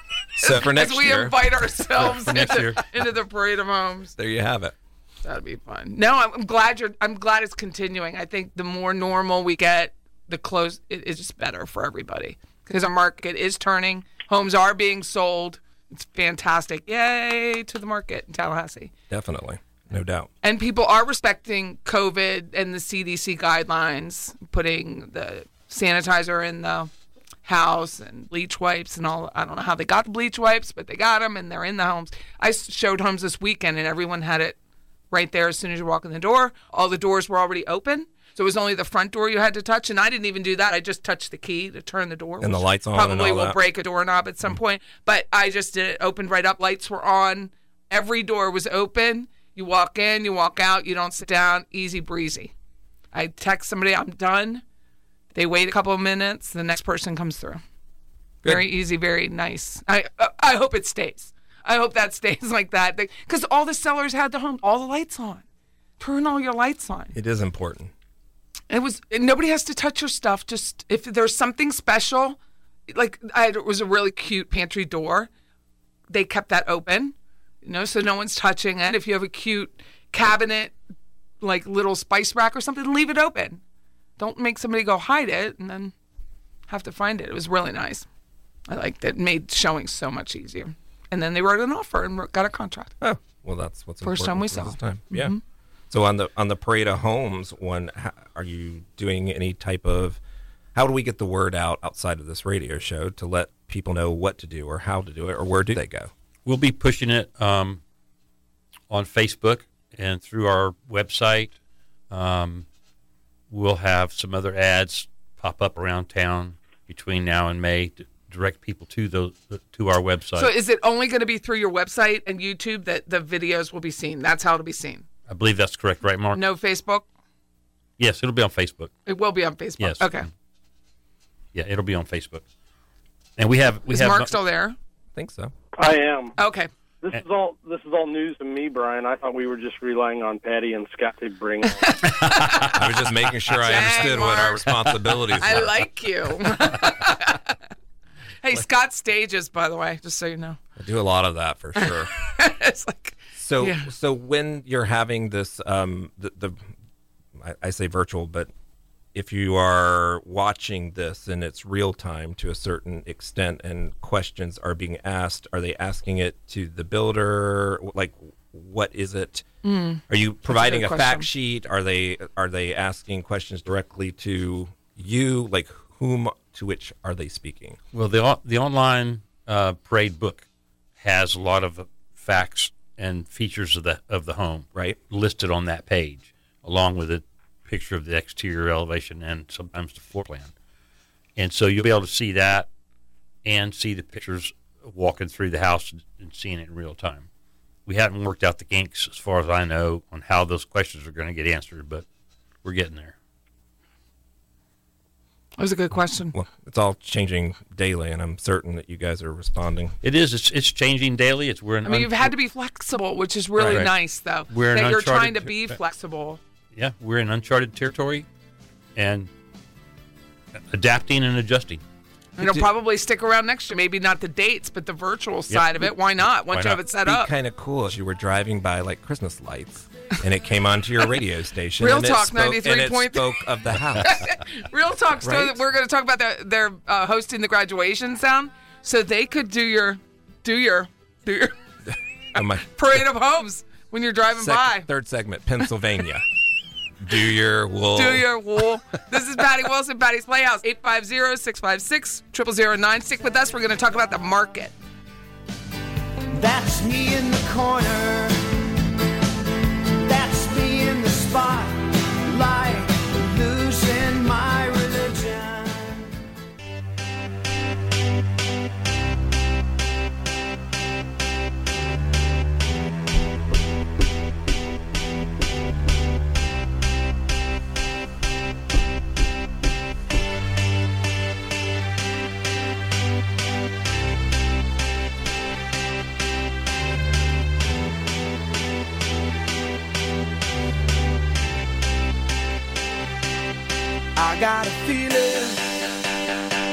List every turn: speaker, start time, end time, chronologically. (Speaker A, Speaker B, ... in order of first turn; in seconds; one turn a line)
Speaker A: 0.3-2.1
Speaker B: 0.4-4.1
Speaker C: 2.0-2.8
Speaker A: 4.2-4.7
Speaker B: 5.2-18.9
Speaker A: 19.1-20.3
Speaker B: 20.4-26.9
Speaker B: 27.4-34.5
Speaker B: 35.1-52.5
Speaker A: 42.4-43.6
Speaker B: 53.1-54.6
Speaker B: 55.3-57.6
Speaker B: 58.4-65.4
Speaker B: 66.0-67.1
Speaker A: 67.1-67.9
Speaker B: 68.7-72.4
Speaker B: 72.9-75.3
Speaker B: 76.1-80.7
Speaker B: 81.4-83.6
Speaker B: 84.2-85.9
Speaker B: 86.7-88.0
Speaker B: 88.7-92.9
Speaker A: 93.0-95.3
Speaker B: 94.0-95.4
Speaker A: 95.9-100.2
Speaker A: 100.7-106.1
Speaker C: 106.4-107.8
Speaker C: 108.9-111.5
Speaker C: 112.1-112.7
Speaker C: 113.5-120.5
Speaker B: 120.3-125.0
Speaker C: 125.3-126.4
Speaker B: 126.3-127.0
Speaker C: 128.0-128.9
Speaker B: 129.1-130.2
Speaker C: 129.8-130.2
Speaker C: 131.5-132.4
Speaker C: 133.4-134.4
Speaker B: 133.9-134.8
Speaker A: 135.1-135.5
Speaker D: 135.8-136.4
Speaker B: 136.4-136.7
Speaker D: 137.0-142.0
Speaker B: 141.8-142.8
Speaker C: 142.2-142.7
Speaker A: 142.7-145.8
Speaker B: 143.6-144.8
Speaker B: 145.4-147.6
Speaker B: 148.4-150.6
Speaker A: 150.8-152.1
Speaker B: 151.8-153.9
Speaker A: 153.3-156.7
Speaker A: 157.4-158.5
Speaker A: 159.1-169.4
Speaker B: 169.6-171.3
Speaker A: 170.1-177.8
Speaker C: 177.9-180.4
Speaker C: 181.0-190.5
Speaker C: 191.4-192.7
Speaker C: 193.4-197.3
Speaker C: 197.8-202.0
Speaker C: 202.6-203.1
Speaker B: 205.6-206.3
Speaker A: 206.3-210.0
Speaker C: 210.0-212.3
Speaker B: 211.8-216.4
Speaker C: 213.6-213.9
Speaker C: 214.5-215.8
Speaker C: 216.7-218.3
Speaker C: 218.9-219.3
Speaker C: 220.7-221.8
Speaker B: 222.4-227.3
Speaker A: 222.4-222.7
Speaker C: 225.5-226.8
Speaker A: 227.0-234.3
Speaker B: 231.8-233.3
Speaker B: 234.0-241.5
Speaker A: 235.2-235.6
Speaker A: 242.3-242.7
Speaker B: 242.4-244.9
Speaker A: 244.3-246.2
Speaker A: 247.0-248.3
Speaker B: 247.9-254.7
Speaker E: 256.3-258.5
Speaker E: 260.1-266.1
Speaker E: 294.1-295.8